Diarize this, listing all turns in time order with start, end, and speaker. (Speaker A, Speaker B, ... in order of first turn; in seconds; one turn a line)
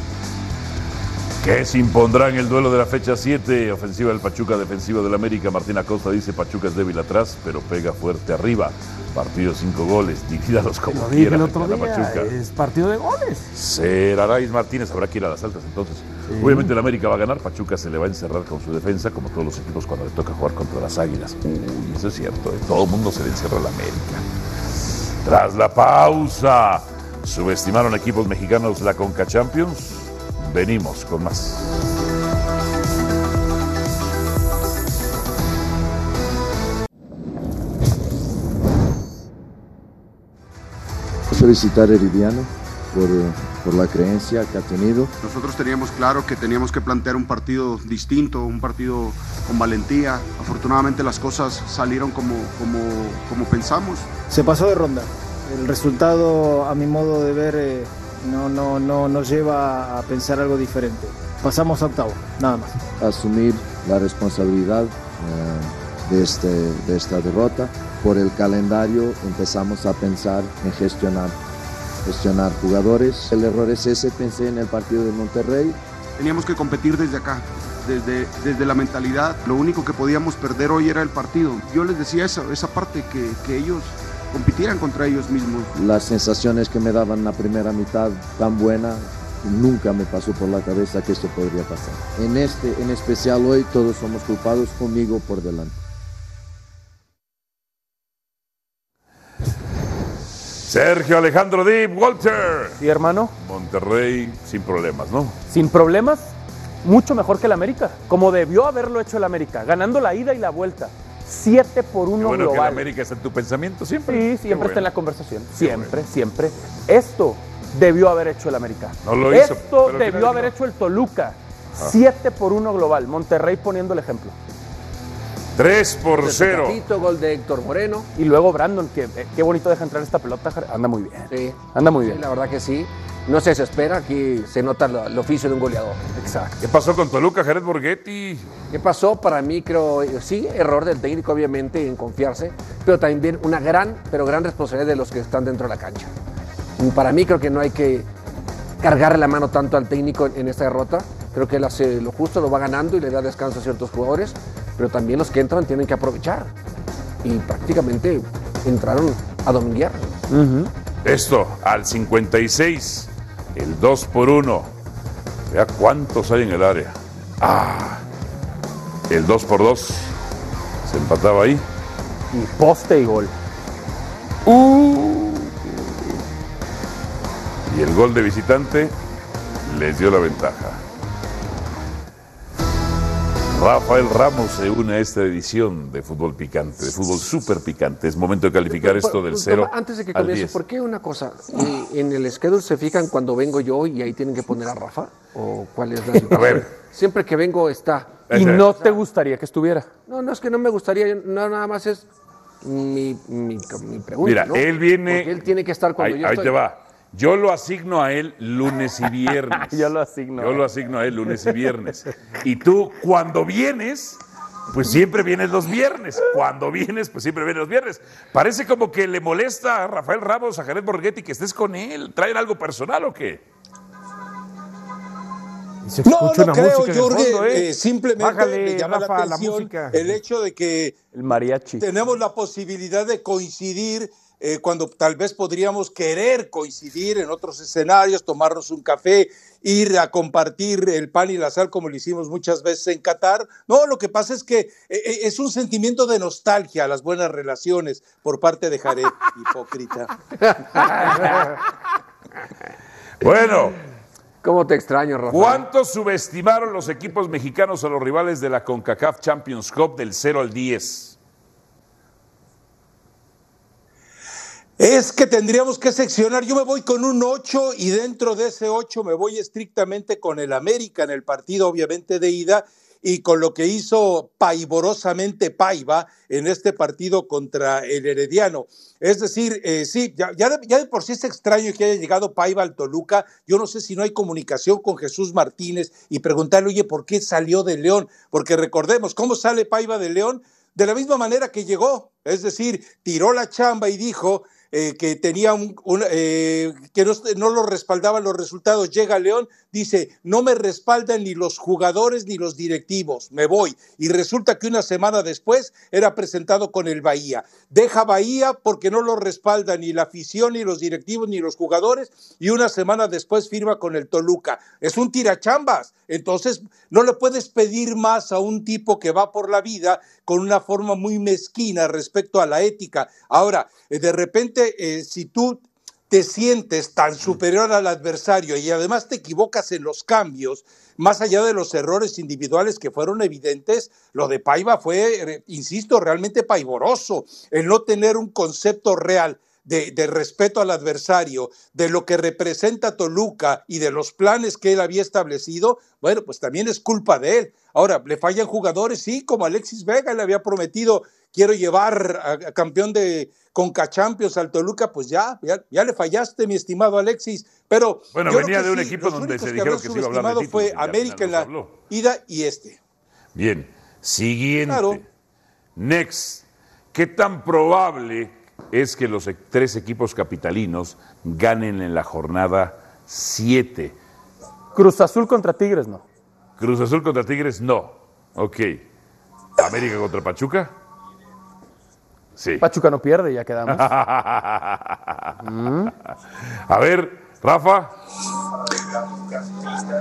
Speaker A: 1.4-12.3
Speaker B: 10.9-13.5
Speaker A: 13.5-24.2
Speaker B: 16.3-16.7
Speaker A: 25.2-31.7
Speaker C: 41.3-45.1
Speaker D: 45.2-54.1
Speaker E: 54.3-62.8
Speaker C: 63.0-71.3
Speaker C: 72.0-75.8
Speaker D: 76.2-85.7
Speaker C: 85.7-95.8
Speaker A: 100.6-102.8
Speaker F: 102.8-103.3
Speaker A: 103.4-105.4
Speaker F: 105.5-112.8
Speaker A: 112.2-114.9
Speaker F: 114.1-124.3
Speaker A: 115.5-116.0
Speaker A: 119.0-120.5
Speaker A: 125.5-126.8
Speaker G: 126.1-128.1
Speaker F: 128.1-132.2
Speaker G: 131.3-136.0
Speaker F: 136.2-136.6
Speaker A: 136.6-138.5
Speaker G: 138.7-146.1
Speaker G: 146.8-148.1
Speaker G: 148.8-156.5
Speaker G: 157.2-160.2
Speaker F: 160.3-160.7
Speaker A: 161.0-164.7
Speaker A: 165.5-168.0
Speaker A: 169.1-170.1
Speaker A: 170.8-171.6
Speaker F: 172.3-173.3
Speaker A: 174.4-175.5
Speaker A: 177.7-178.9
Speaker A: 179.6-180.8
Speaker A: 183.5-190.6
Speaker G: 188.7-198.2
Speaker A: 196.2-196.7
Speaker A: 198.3-198.7
Speaker F: 198.3-199.9
Speaker G: 200.1-202.1
Speaker G: 202.6-206.6
Speaker A: 204.2-205.4
Speaker A: 206.0-223.4
Speaker F: 209.3-210.6
Speaker B: 225.8-230.2
Speaker H: 226.0-231.0
Speaker F: 231.1-231.8
Speaker H: 231.8-250.1
Speaker G: 250.5-251.4
Speaker A: 253.2-253.8
Speaker G: 254.4-255.7
Speaker A: 255.3-261.2
Speaker H: 264.8-362.8
Speaker A: 358.1-361.8
Speaker A: 363.3-365.0
Speaker H: 364.6-365.0
Speaker A: 365.8-373.9
Speaker F: 374.7-376.0
Speaker A: 376.6-378.8
Speaker A: 379.6-380.7
Speaker A: 382.4-382.6
Speaker F: 382.6-383.8
Speaker A: 383.7-385.4
Speaker F: 385.4-385.9
Speaker A: 386.7-387.9